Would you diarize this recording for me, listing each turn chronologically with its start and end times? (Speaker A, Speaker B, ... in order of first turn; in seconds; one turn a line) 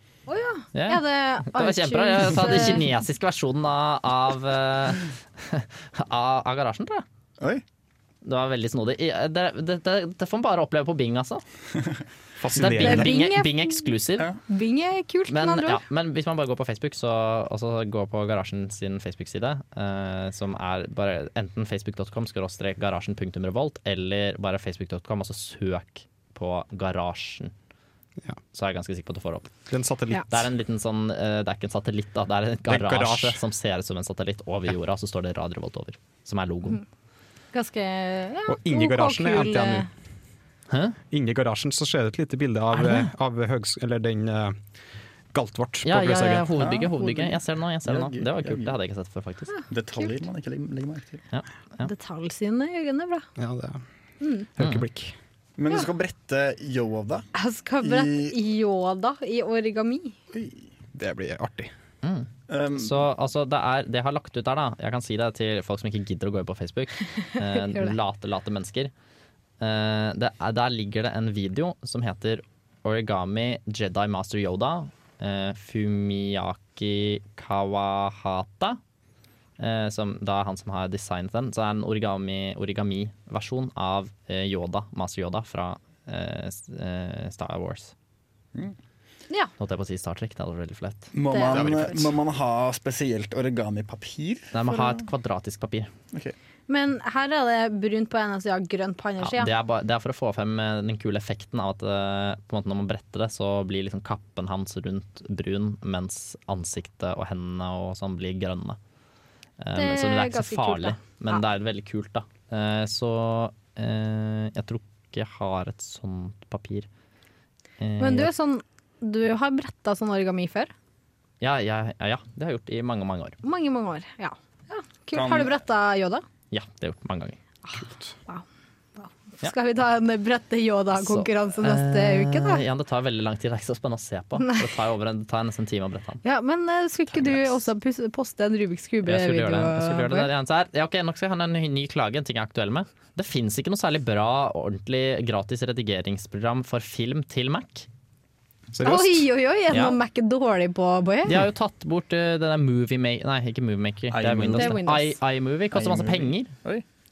Speaker A: 0.3-2.9
Speaker B: 0.7-7.0
Speaker B: 8.2-11.4
Speaker C: 12.4-13.2
Speaker B: 12.6-14.3
Speaker A: 12.8-13.9
Speaker A: 14.5-15.8
Speaker B: 15.3-27.5
Speaker B: 28.5-29.5
Speaker C: 29.7-30.4
Speaker B: 30.3-36.8
Speaker C: 32.7-33.4
Speaker A: 37.5-39.9
Speaker C: 38.5-39.9
Speaker B: 40.7-41.0
Speaker C: 41.1-44.6
Speaker B: 42.7-43.1
Speaker C: 45.3-46.5
Speaker B: 45.8-49.5
Speaker D: 46.6-48.7
Speaker A: 49.5-50.1
Speaker D: 49.7-51.2
Speaker B: 51.3-51.9
Speaker A: 51.8-53.3
Speaker C: 53.4-53.8
Speaker A: 54.2-54.5
Speaker C: 54.6-55.1
Speaker B: 54.6-54.9
Speaker D: 55.6-57.3
Speaker A: 57.4-60.2
Speaker D: 57.8-58.4
Speaker D: 60.3-60.7
Speaker C: 60.9-61.7
Speaker B: 62.0-68.9
Speaker D: 62.5-63.0
Speaker A: 67.5-68.0
Speaker B: 69.6-78.8
Speaker B: 79.6-87.9
Speaker B: 89.6-91.1
Speaker D: 91.1-95.0
Speaker A: 91.3-92.0
Speaker B: 94.5-95.9
Speaker A: 96.7-99.5
Speaker B: 99.2-108.8
Speaker B: 109.6-116.9
Speaker A: 109.8-111.4
Speaker B: 117.8-118.3
Speaker A: 118.0-120.7
Speaker B: 121.4-123.4
Speaker A: 123.4-126.2
Speaker D: 125.1-125.6
Speaker B: 126.5-127.4
Speaker A: 127.7-128.4
Speaker C: 127.8-128.1
Speaker A: 129.0-132.6
Speaker B: 131.0-136.2
Speaker A: 136.2-140.3
Speaker B: 139.1-147.9
Speaker C: 148.7-149.3
Speaker A: 148.8-151.4
Speaker B: 149.7-150.0
Speaker B: 151.3-156.5
Speaker D: 154.1-154.8
Speaker A: 154.5-155.2
Speaker D: 155.7-156.8